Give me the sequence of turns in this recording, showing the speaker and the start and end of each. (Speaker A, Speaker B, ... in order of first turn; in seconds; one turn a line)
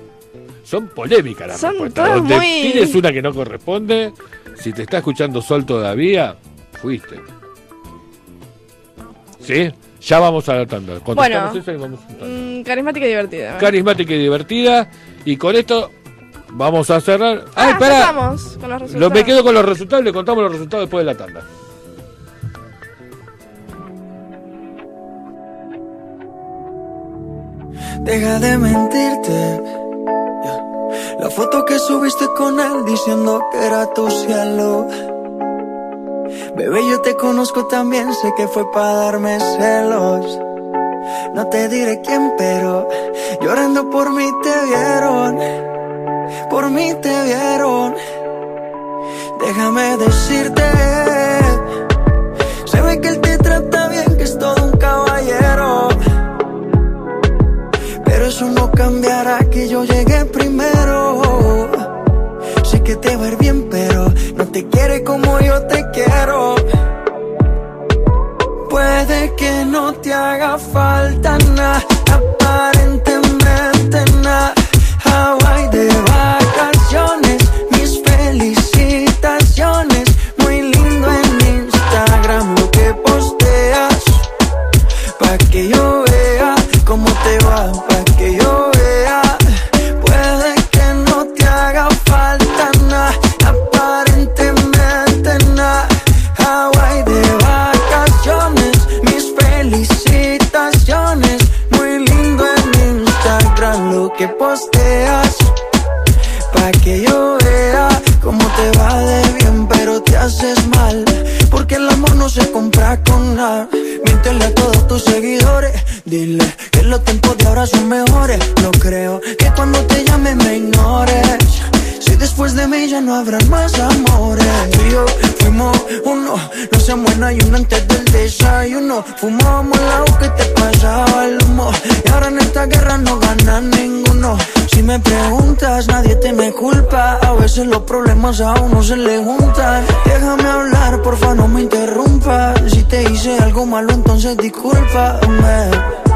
Speaker A: 0.6-7.3
Speaker B: 1.5-3.0
Speaker A: 9.4-12.4
Speaker B: 11.1-11.6
Speaker B: 12.2-13.8
Speaker A: 13.6-15.9
Speaker A: 16.5-18.2
Speaker B: 17.6-19.4
Speaker A: 18.9-21.5
Speaker C: 28.0-29.7
Speaker C: 31.2-34.9
Speaker C: 36.5-40.4
Speaker C: 41.3-45.4
Speaker C: 46.5-48.0
Speaker C: 49.4-51.6
Speaker C: 52.6-56.0
Speaker C: 58.0-61.9
Speaker C: 62.6-66.7
Speaker C: 68.7-84.3
Speaker C: 85.2-89.4
Speaker C: 90.0-105.5
Speaker C: 106.5-145.9